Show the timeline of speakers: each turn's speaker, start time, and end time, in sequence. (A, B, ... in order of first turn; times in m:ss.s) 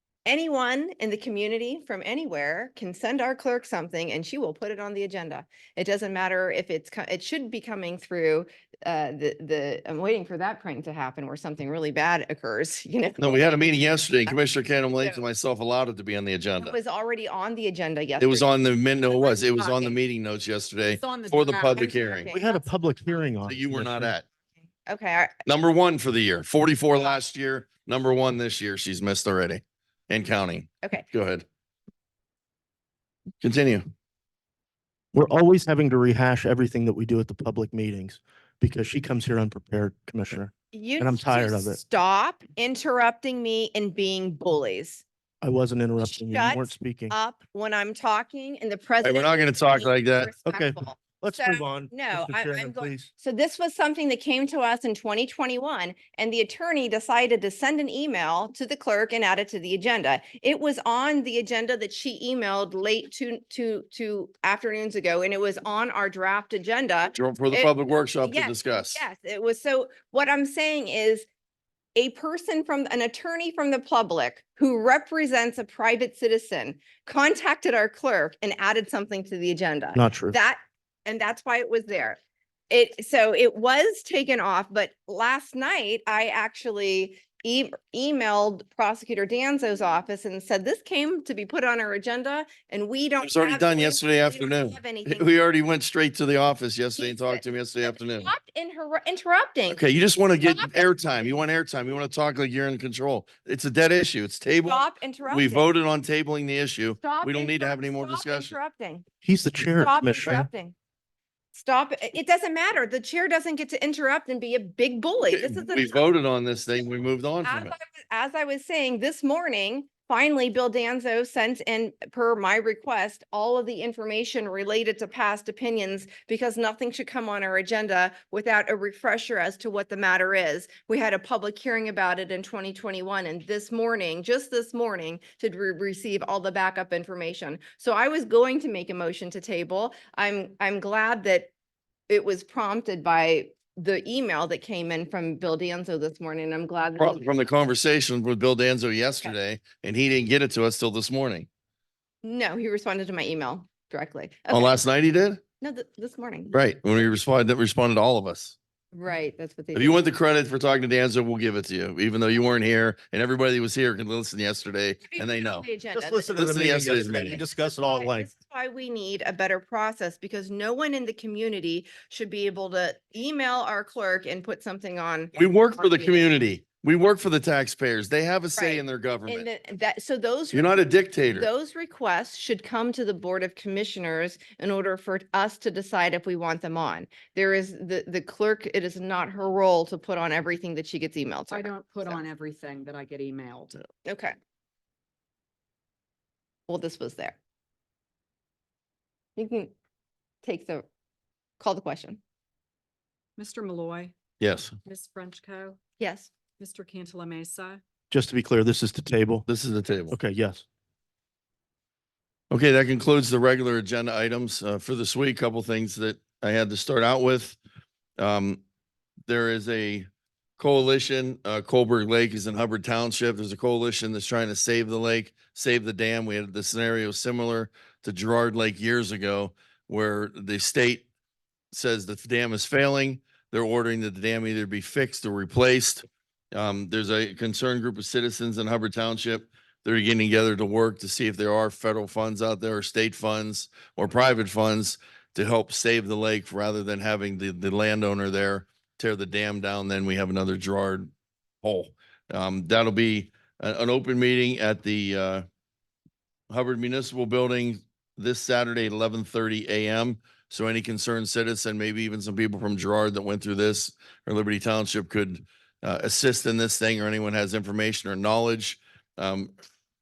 0:00.2-0:14.4 A
0:13.2-0:16.8 B
0:16.6-0:18.5 A
0:18.2-0:22.3 B
0:19.2-0:19.9 A
0:20.9-0:22.0 C
0:21.8-0:22.6 A
0:22.3-0:24.1 D
0:23.4-0:24.2 B
0:24.8-0:25.3 A
0:25.4-0:31.4 B
0:33.4-0:33.8 B
0:35.1-0:41.8 D
0:40.7-0:45.0 A
0:45.4-0:47.2 D
0:46.0-1:11.2 A
0:49.0-0:50.3 B
0:50.4-0:53.1 D
1:07.1-1:09.0 B
1:12.0-1:22.2 A
1:19.9-1:20.4 D
1:22.7-1:35.3 A
1:33.2-1:38.3 B
1:37.0-1:39.8 A
1:39.7-1:48.6 B
1:40.4-1:40.9 A
1:44.6-1:45.7 A
1:47.0-1:49.0 A
1:49.2-1:50.5 D
1:49.8-1:50.7 A
1:51.5-1:56.0 A
1:55.3-1:57.7 B
1:57.4-2:21.5 A
2:22.1-2:27.5 A
2:27.0-2:31.5 B
2:32.2-2:34.8 A
2:34.5-2:35.4 B
2:35.6-2:36.5 A
2:36.5-2:38.6 B
2:38.9-2:40.0 A
2:39.7-2:45.6 B
2:45.1-2:56.3 A
2:45.9-2:48.3 D
2:46.3-2:47.4 B
2:55.3-2:59.5 B
2:58.6-3:12.2 A
3:00.5-3:01.5 B
3:11.5-3:13.8 C
3:14.0-3:14.3 A
3:16.7-3:17.4 A
3:19.4-3:19.7 A
3:20.4-3:20.8 A
3:21.6-3:22.2 A
3:23.4-3:24.1 C
3:24.4-3:24.7 B
3:24.8-3:25.8 C
3:26.0-3:26.3 A
3:26.6-3:27.8 C
3:28.1-3:29.5 D
3:29.5-3:30.2 B
3:30.1-3:30.6 D
3:32.5-3:37.6 B
3:38.2-3:38.6 B
3:39.3-3:40.0 B
3:40.6-3:51.0 B
3:51.7-4:11.1 B
4:11.6-4:15.4 B
4:16.5-4:29.5 B